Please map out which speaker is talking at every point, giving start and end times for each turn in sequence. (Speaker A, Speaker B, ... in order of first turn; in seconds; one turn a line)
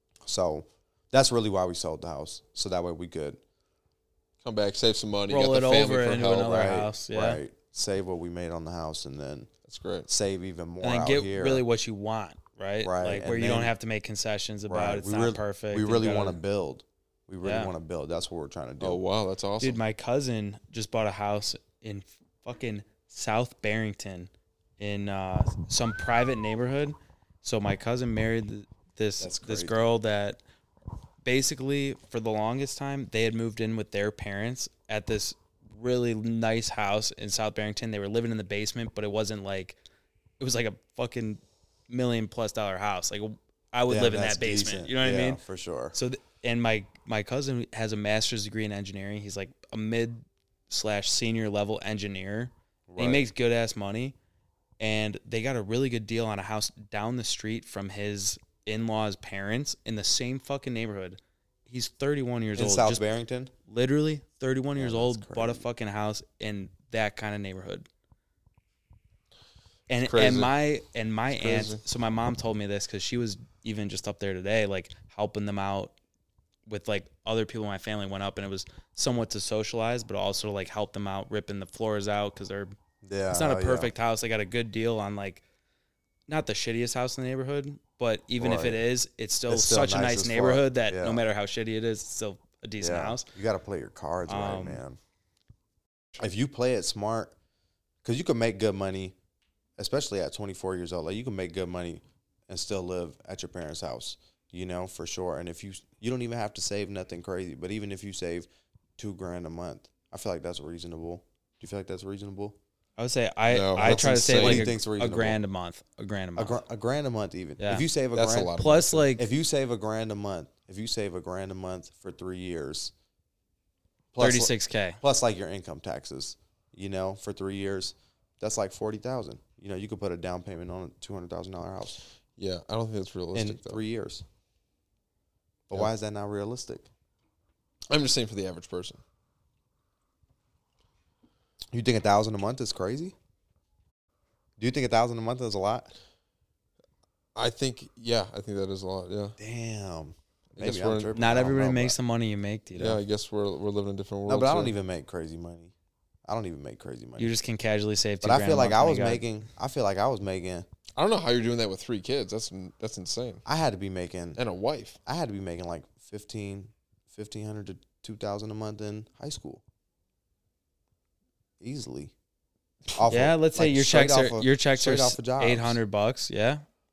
Speaker A: 0.2-3.4
Speaker B: 4.4-6.7
Speaker C: 5.3-7.4
Speaker A: 6.5-9.5
Speaker B: 9.7-10.1
Speaker A: 10.1-11.6
Speaker C: 10.8-16.4
Speaker A: 12.8-13.7
Speaker A: 14.7-19.0
Speaker C: 17.4-17.7
Speaker B: 18.8-19.8
Speaker C: 19.6-30.4
Speaker A: 29.2-29.8
Speaker C: 31.2-39.8
Speaker C: 40.4-45.4
Speaker A: 43.9-45.9
Speaker C: 45.9-54.1
Speaker A: 52.9-53.2
Speaker C: 54.8-63.0
Speaker A: 62.5-63.5
Speaker C: 63.7-67.9
Speaker A: 64.8-65.6
Speaker C: 69.9-75.9
Speaker B: 70.0-70.5
Speaker B: 71.4-71.8
Speaker C: 76.7-82.7
Speaker A: 83.0-83.9
Speaker C: 83.3-85.4
Speaker C: 86.3-93.3
Speaker A: 88.4-88.8
Speaker A: 89.5-91.2
Speaker A: 92.8-95.0
Speaker C: 94.3-94.8
Speaker A: 96.2-97.3
Speaker A: 98.0-99.1
Speaker A: 99.8-108.5
Speaker A: 109.0-112.5
Speaker C: 113.0-116.6
Speaker B: 113.5-114.7
Speaker A: 113.8-115.4
Speaker A: 116.3-118.5
Speaker C: 117.6-117.8
Speaker B: 118.1-119.1
Speaker C: 118.6-119.2
Speaker A: 119.2-122.9
Speaker A: 124.1-132.0
Speaker C: 124.2-125.0
Speaker B: 132.4-133.8
Speaker A: 133.3-134.2
Speaker A: 135.7-136.9
Speaker B: 137.9-139.0
Speaker A: 141.7-143.1
Speaker A: 144.6-145.9
Speaker B: 147.3-149.3
Speaker A: 149.4-151.9
Speaker B: 150.6-151.1
Speaker C: 151.1-153.0
Speaker B: 152.8-154.7
Speaker A: 154.3-155.7
Speaker A: 156.2-157.3
Speaker C: 157.2-159.2
Speaker A: 158.2-160.7
Speaker B: 160.9-163.4
Speaker A: 163.4-164.4
Speaker B: 164.3-165.0
Speaker A: 165.1-169.6
Speaker A: 171.6-172.1
Speaker A: 172.9-175.8
Speaker C: 173.1-176.6